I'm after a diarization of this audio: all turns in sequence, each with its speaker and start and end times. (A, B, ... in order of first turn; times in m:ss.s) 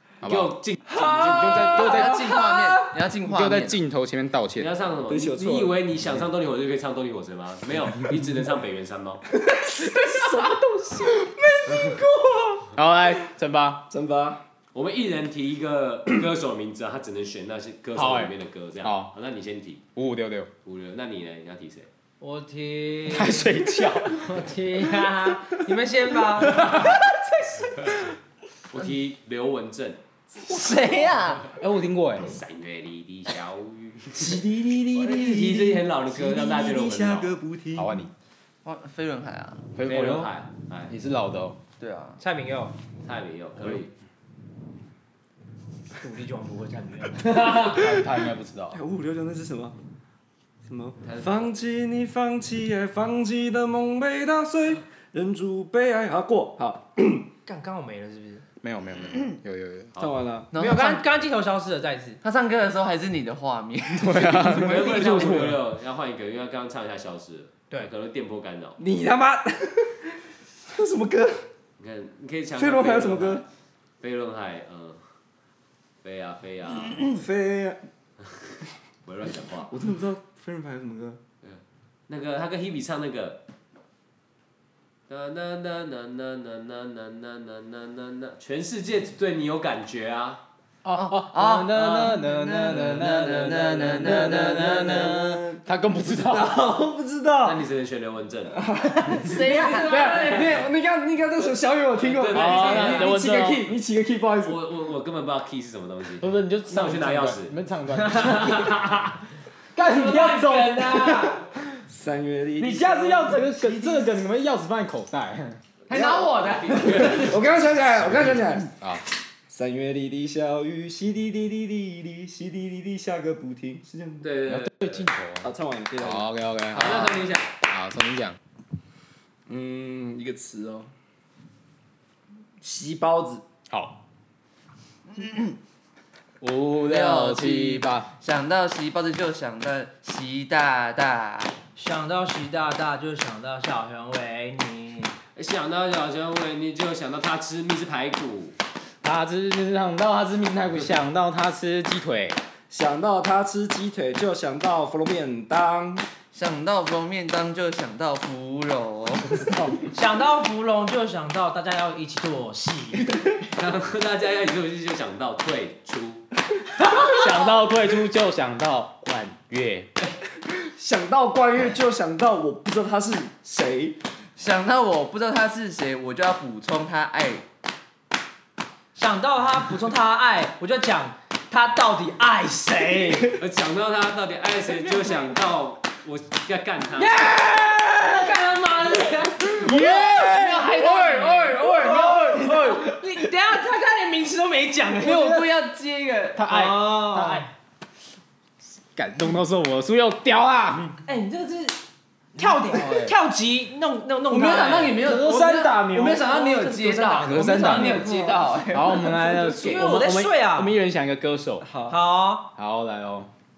0:00.2-0:02.4 A
0:00.2-0:01.9 B
0:01.0-0:03.8 C
0:01.7-0:02.8 D
0:03.3-0:04.7 A
0:04.6-0:09.2 B
0:05.1-0:05.8 D
0:09.3-0:12.7 D
0:12.7-0:13.8 A
0:13.9-0:14.4 D
0:14.7-0:19.8 B
0:17.9-0:19.1 A
0:19.9-0:20.5 A
0:20.6-0:21.9 B
0:22.2-0:27.0 E
0:23.1-0:24.3 A
0:26.6-0:26.9 A
0:28.7-0:30.0 B
0:30.4-0:31.5 C
0:31.5-0:32.4 A
0:32.2-0:37.4 B
0:34.1-0:37.9 D
0:35.2-0:35.7 C
0:36.5-0:36.8 C
0:37.7-0:38.1 A
0:38.6-0:39.6 C
0:39.7-0:40.3 A
0:39.8-0:40.9 B
0:40.9-0:41.6 A
0:41.8-0:42.2 C
0:42.2-0:42.7 E
0:43.0-0:43.9 B
0:46.0-0:47.6 E
0:47.4-0:48.8 A
0:48.7-0:49.7 D
0:50.6-0:57.3 D
0:51.0-0:51.5 B
0:57.4-0:58.4 E
0:58.6-0:59.9 A
1:00.0-1:00.5 D
1:00.5-1:01.0 C
1:00.5-1:02.2 E
1:02.2-1:05.0 C
1:04.0-1:05.5 A
1:04.5-1:08.8 B
1:04.9-1:05.5 D
1:08.8-1:10.2 D
1:10.7-1:11.4 D
1:11.8-1:13.4 B
1:12.6-1:13.4 D
1:14.0-1:15.0 B
1:16.0-1:17.0 B
1:17.0-1:17.8 D
1:19.0-1:19.7 B
1:19.7-1:21.2 D
1:21.4-1:23.4 B
1:25.1-1:30.4 B
1:30.8-1:36.6 A
1:30.9-1:35.2 C
1:34.0-1:37.6 D
1:37.4-1:38.6 B
1:38.6-1:44.6 D
1:39.2-1:40.4 C
1:39.4-1:40.4 B
1:39.5-1:40.4 E
1:42.0-1:43.2 B
1:42.3-1:43.7 A
1:44.4-1:47.5 B
1:46.2-1:48.8 A
1:48.3-1:48.9 B
1:49.7-1:51.4 A
1:49.9-1:51.3 E
1:51.9-1:54.0 D
1:52.6-1:55.6 A
1:55.9-1:57.4 B
1:55.9-1:58.7 D
1:55.9-1:57.2 C
1:58.0-1:59.0 A
1:59.5-2:04.3 D
2:04.2-2:05.1 B
2:04.5-2:05.5 A
2:05.4-2:06.3 D
2:06.0-2:08.4 A
2:06.7-2:07.5 B
2:09.5-2:10.9 D
2:12.6-2:13.4 D
2:13.7-2:13.9 A
2:15.1-2:15.6 C
2:16.4-2:18.1 A
2:16.8-2:21.5 C
2:21.8-2:25.1 E
2:25.4-2:28.5 B
2:29.0-2:32.4 A
2:32.7-2:36.0 D
2:36.3-2:39.4 C
2:39.4-2:39.9 A
2:39.9-2:43.1 E
2:43.5-2:46.2 B
2:47.0-2:49.9 A
2:50.6-2:54.0 D
2:54.4-2:57.4 C
2:58.9-3:03.4 E
3:03.4-3:07.3 B
3:07.0-3:15.3 E
3:07.5-3:08.0 D
3:09.5-3:10.8 A
3:09.7-3:13.0 D
3:09.8-3:12.8 C
3:15.0-3:16.4 C
3:15.0-3:15.6 A
3:16.3-3:17.5 A
3:16.5-3:17.5 E
3:18.9-3:21.0 A
3:21.0-3:21.8 E
3:22.4-3:25.1 E
3:22.7-3:23.1 A
3:24.3-3:29.3 C
3:25.0-3:26.2 A
3:26.0-3:28.3 E
3:27.2-3:28.1 A
3:28.1-3:28.4 D
3:28.7-3:31.7 A
3:29.3-3:30.7 E
3:31.6-3:31.9 D
3:31.9-3:32.5 E
3:32.6-3:33.3 A